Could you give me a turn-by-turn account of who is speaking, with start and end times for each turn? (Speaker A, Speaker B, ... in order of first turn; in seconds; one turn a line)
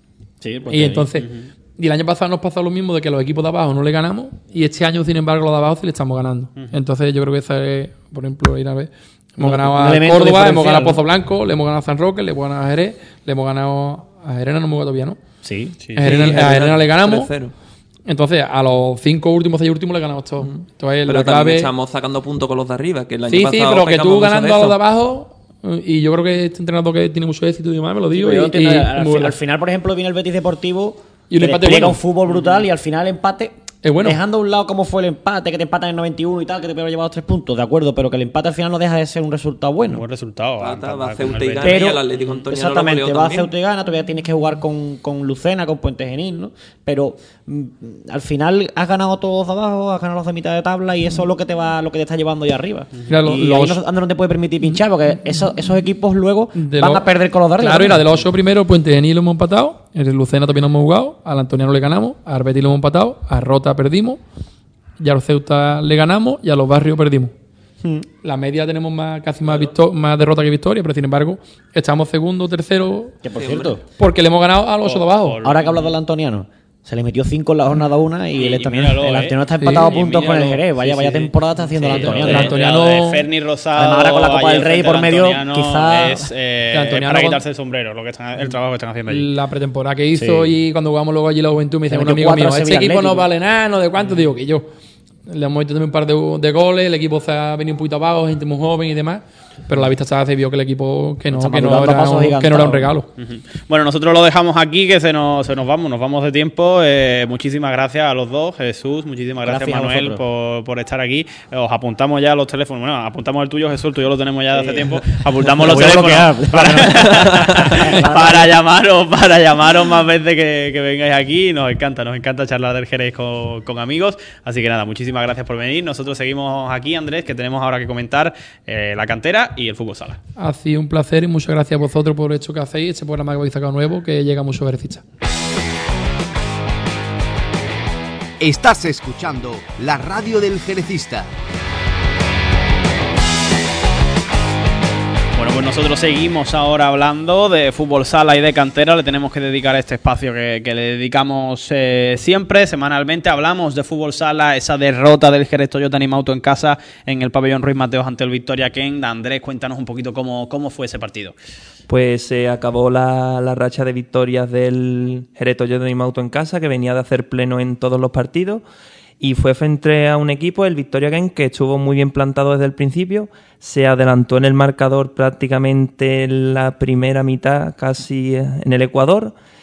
Speaker A: 0.4-1.2
Speaker B: 0.7-15.2
Speaker A: 9.4-11.0
Speaker A: 15.4-15.9
Speaker B: 15.9-17.3
Speaker C: 16.0-17.5
Speaker B: 18.1-21.7
Speaker C: 20.4-24.8
Speaker B: 23.3-29.4
Speaker A: 28.1-40.0
Speaker B: 31.3-32.0
Speaker B: 33.8-34.2
Speaker D: 39.9-41.9
Speaker C: 40.6-43.5
Speaker A: 41.6-58.2
Speaker B: 53.1-53.8
Speaker B: 56.5-64.2
Speaker B: 65.0-67.3
Speaker B: 68.2-73.2
Speaker A: 73.2-73.8
Speaker C: 73.3-73.7
Speaker B: 74.0-75.4
Speaker D: 74.8-75.9
Speaker A: 75.4-82.6
Speaker D: 78.4-89.3
Speaker B: 79.6-80.0
Speaker B: 81.9-83.3
Speaker A: 83.8-86.3
Speaker B: 86.7-87.4
Speaker B: 89.1-94.7
Speaker A: 90.2-90.5
Speaker A: 91.9-93.3
Speaker B: 95.3-103.1
Speaker A: 101.3-102.9
Speaker D: 103.2-130.2
Speaker A: 109.4-110.2
Speaker A: 114.5-118.5
Speaker B: 130.4-135.0
Speaker E: 138.4-141.3
Speaker D: 145.4-161.3
Speaker C: 161.9-168.6
Speaker C: 169.2-179.3